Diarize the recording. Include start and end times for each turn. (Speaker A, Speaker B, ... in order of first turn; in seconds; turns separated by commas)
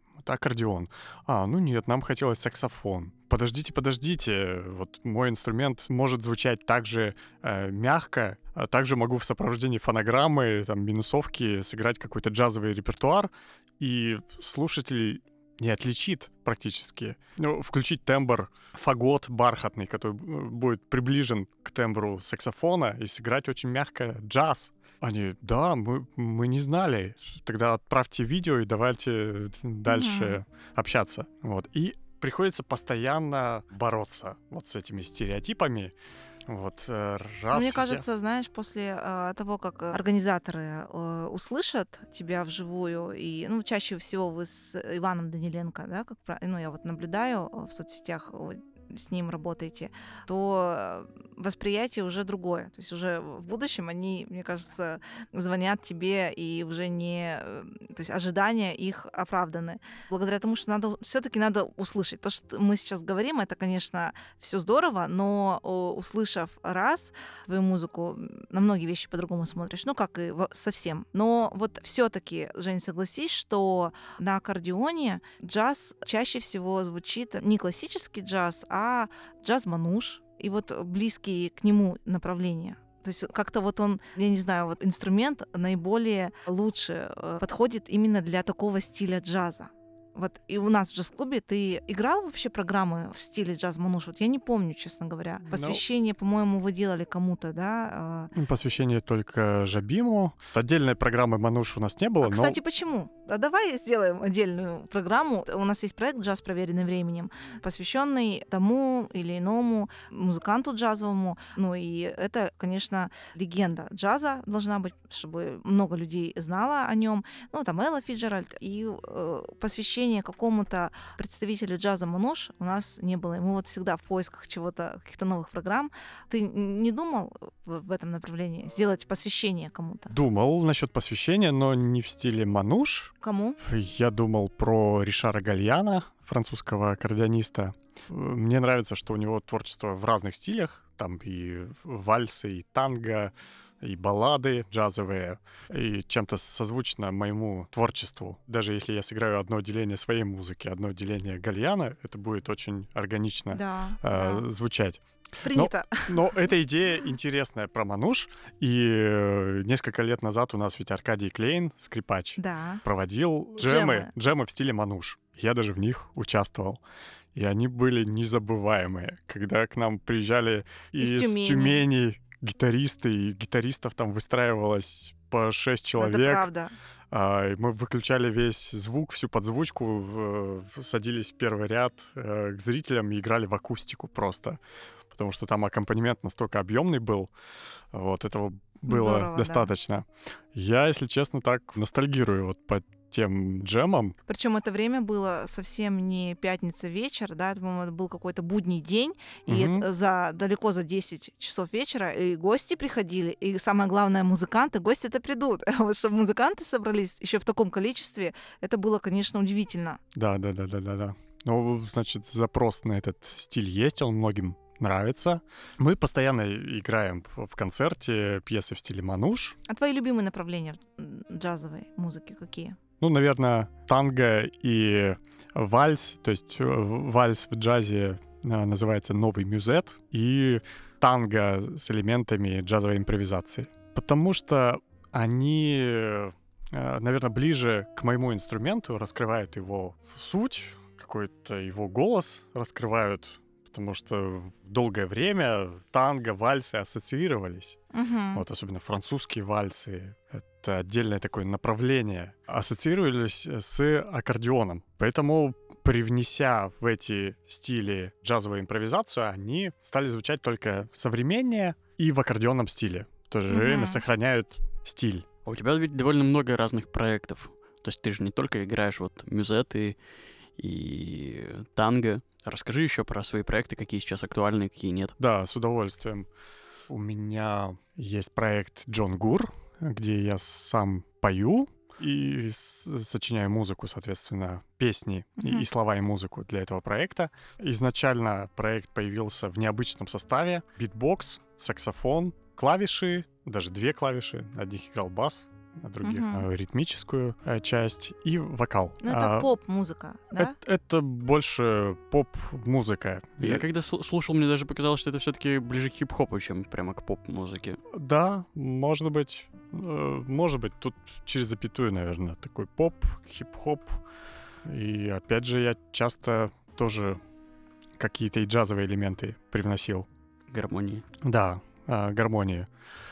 Speaker A: 0.2-35.9, Speaker B: 29.9-30.4, Speaker A: 36.5-38.0, Speaker B: 37.5-98.3, Speaker A: 95.5-95.8, Speaker A: 98.3-102.6, Speaker B: 102.2-130.2, Speaker A: 130.1-166.8, Speaker B: 133.2-133.6, Speaker B: 153.5-154.5, Speaker B: 155.4-156.4, Speaker B: 162.4-162.8, Speaker B: 163.6-164.1, Speaker A: 167.3-176.5, Speaker B: 171.0-171.8, Speaker B: 176.0-176.7, Speaker A: 177.1-184.6, Speaker A: 185.1-187.3, Speaker A: 187.9-194.2, Speaker B: 188.8-189.7, Speaker B: 194.3-210.0, Speaker A: 199.5-199.9, Speaker A: 210.1-219.6, Speaker B: 219.7-222.8, Speaker A: 223.0-247.8, Speaker B: 247.9-248.4, Speaker A: 248.3-265.3, Speaker B: 263.5-264.0, Speaker C: 265.4-270.0, Speaker C: 270.6-275.1, Speaker A: 275.2-276.3, Speaker A: 276.9-299.5, Speaker B: 285.4-285.7, Speaker B: 296.0-296.4, Speaker B: 299.0-300.6, Speaker A: 300.4-303.6, Speaker C: 303.4-307.8, Speaker A: 307.9-314.0, Speaker A: 314.6-317.2, Speaker A: 318.0-320.1, Speaker C: 320.5-321.1, Speaker A: 321.2-322.7